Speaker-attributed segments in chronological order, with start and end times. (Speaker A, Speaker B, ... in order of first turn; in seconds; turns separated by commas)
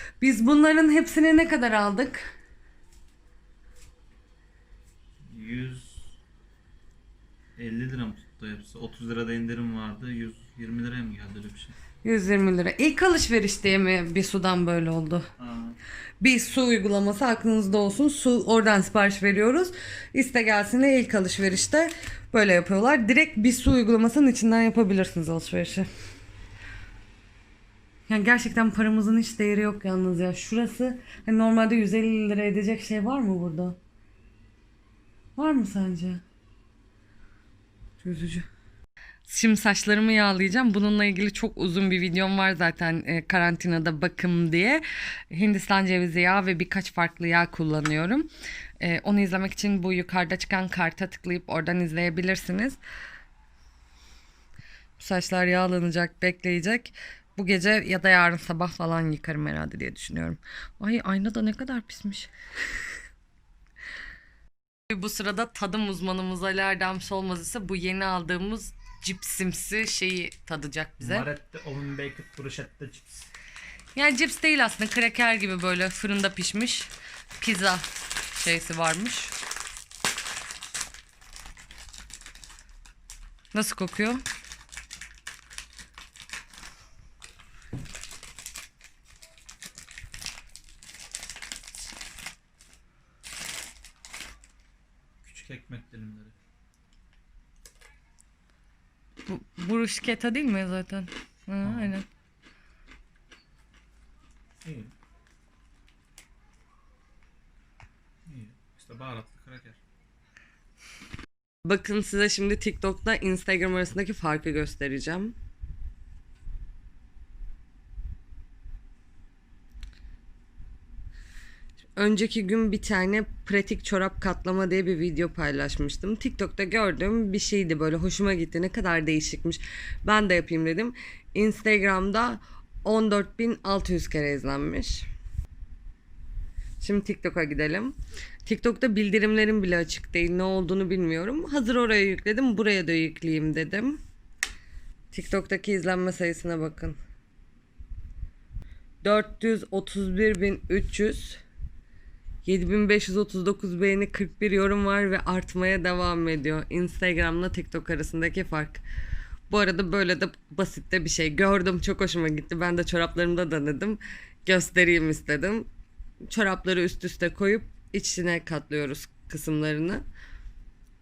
Speaker A: 0.2-2.3, Speaker B: 5.3-6.1, Speaker B: 7.5-11.8, Speaker A: 12.0-15.3, Speaker B: 15.4-15.8, Speaker A: 16.2-25.9, Speaker A: 28.1-33.8, Speaker A: 35.4-36.2, Speaker A: 38.0-38.5, Speaker A: 39.2-48.3, Speaker A: 48.8-52.8, Speaker A: 55.0-62.3, Speaker A: 64.9-71.3, Speaker B: 71.0-73.3, Speaker A: 73.9-79.3, Speaker A: 83.5-84.2, Speaker B: 95.2-96.3, Speaker A: 99.3-102.0, Speaker B: 101.6-101.9, Speaker B: 104.6-104.9, Speaker B: 108.3-109.8, Speaker A: 111.6-115.3, Speaker A: 122.0-135.1, Speaker A: 136.8-144.0, Speaker A: 145.1-147.0, Speaker A: 149.0-151.4, Speaker A: 152.4-158.8, Speaker A: 159.5-165.7, Speaker A: 166.3-170.0